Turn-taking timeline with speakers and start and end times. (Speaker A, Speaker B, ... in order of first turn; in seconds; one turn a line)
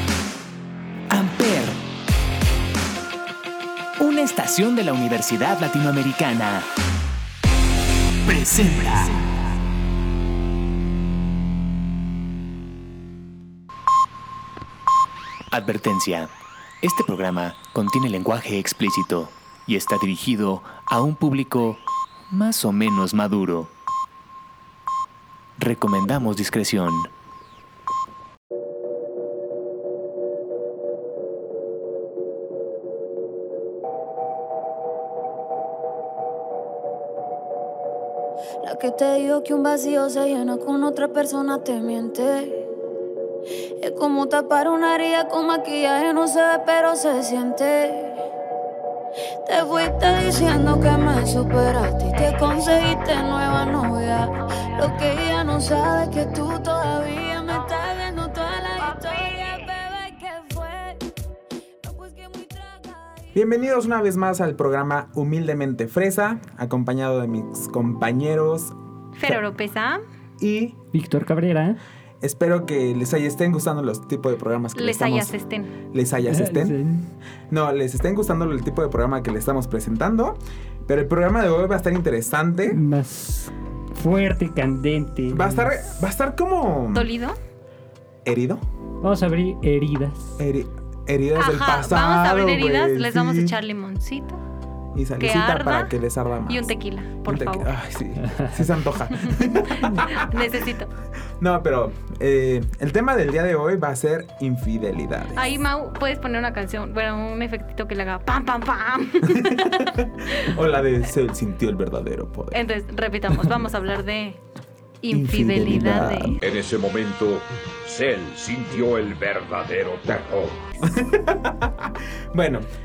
Speaker A: 1.1-1.8
Speaker A: 4.0-6.7
Speaker A: 8.3-9.3
Speaker A: 15.5-23.7
Speaker A: 25.6-27.1
Speaker B: 38.6-42.7
Speaker B: 43.8-48.2
Speaker B: 49.5-61.0
Speaker B: 61.8-63.4
Speaker C: 63.4-69.4
Speaker D: 69.2-70.0
Speaker C: 70.4-70.8
Speaker E: 70.9-71.8
Speaker C: 72.2-75.4
Speaker D: 74.8-75.7
Speaker C: 75.9-76.8
Speaker E: 76.3-77.1
Speaker C: 77.5-82.8
Speaker E: 82.7-85.8
Speaker C: 85.3-87.1
Speaker D: 86.9-87.4
Speaker C: 88.2-88.6
Speaker E: 89.0-90.4
Speaker C: 90.4-93.6
Speaker D: 91.4-94.4
Speaker C: 95.0-96.7
Speaker D: 95.2-95.9
Speaker D: 96.5-97.7
Speaker C: 97.2-100.3
Speaker E: 98.2-98.5
Speaker D: 99.3-100.9
Speaker C: 101.4-105.6
Speaker D: 105.3-110.5
Speaker C: 109.3-112.6
Speaker D: 112.5-114.4
Speaker D: 115.0-116.4
Speaker C: 115.1-116.4
Speaker F: 116.4-120.6
Speaker C: 120.8-122.7